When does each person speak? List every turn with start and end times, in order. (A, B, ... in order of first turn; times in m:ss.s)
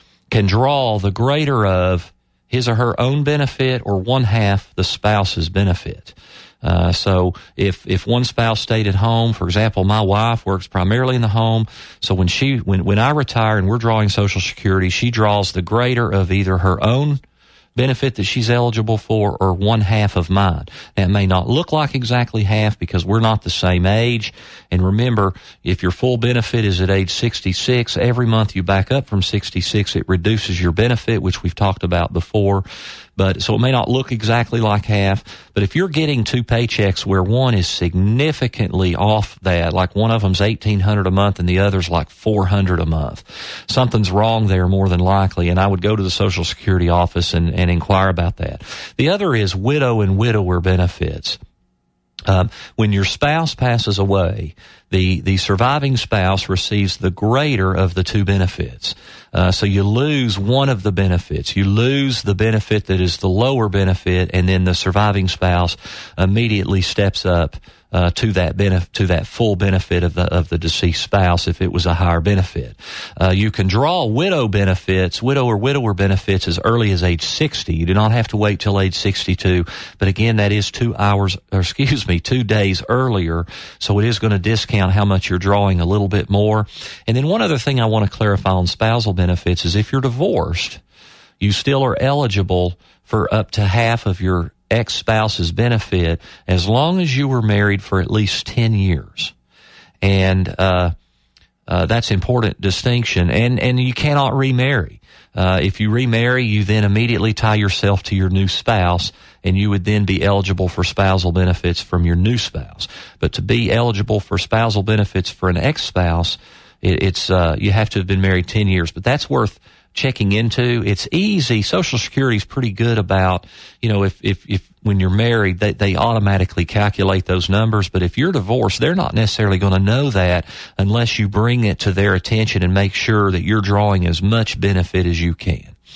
0:00.3-0:17.2 A
0:17.8-0:32.6 A
0:33.2-0:51.4 A
0:52.3-1:30.8 A
1:31.4-1:39.3 A
1:40.0-1:40.9 A
1:41.7-2:15.8 A